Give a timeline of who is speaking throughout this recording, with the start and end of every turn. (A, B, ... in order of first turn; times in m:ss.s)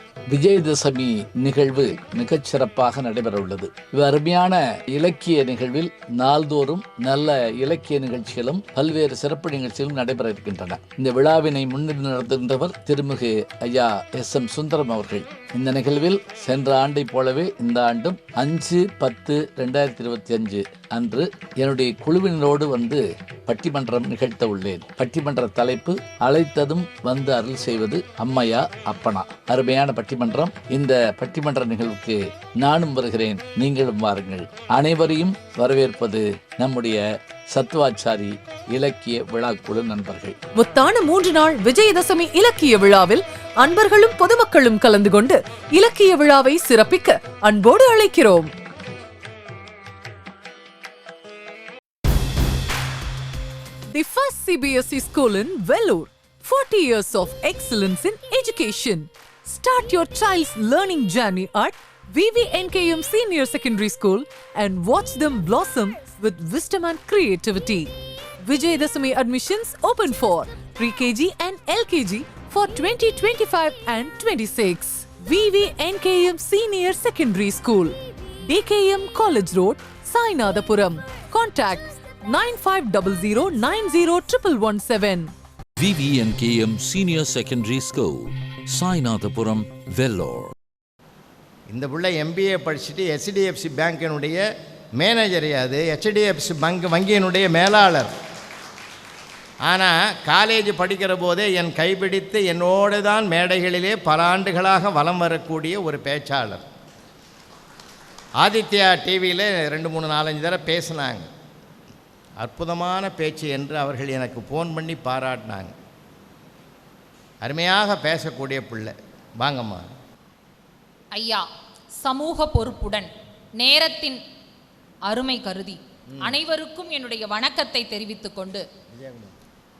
0:00.3-0:40.4 A
0:40.6-0:48.5 B
0:53.9-1:07.9 B
1:08.5-1:18.0 B
1:18.5-1:25.3 B
1:25.8-1:30.5 C
1:31.7-1:34.4 D
1:35.0-1:38.1 D
1:39.7-1:46.6 D
1:48.4-1:51.3 D
1:52.4-1:55.7 D
1:57.4-1:59.8 D
2:01.1-2:01.5 E
2:02.0-2:04.2 E
2:05.1-2:08.6 E
2:09.0-2:09.3 D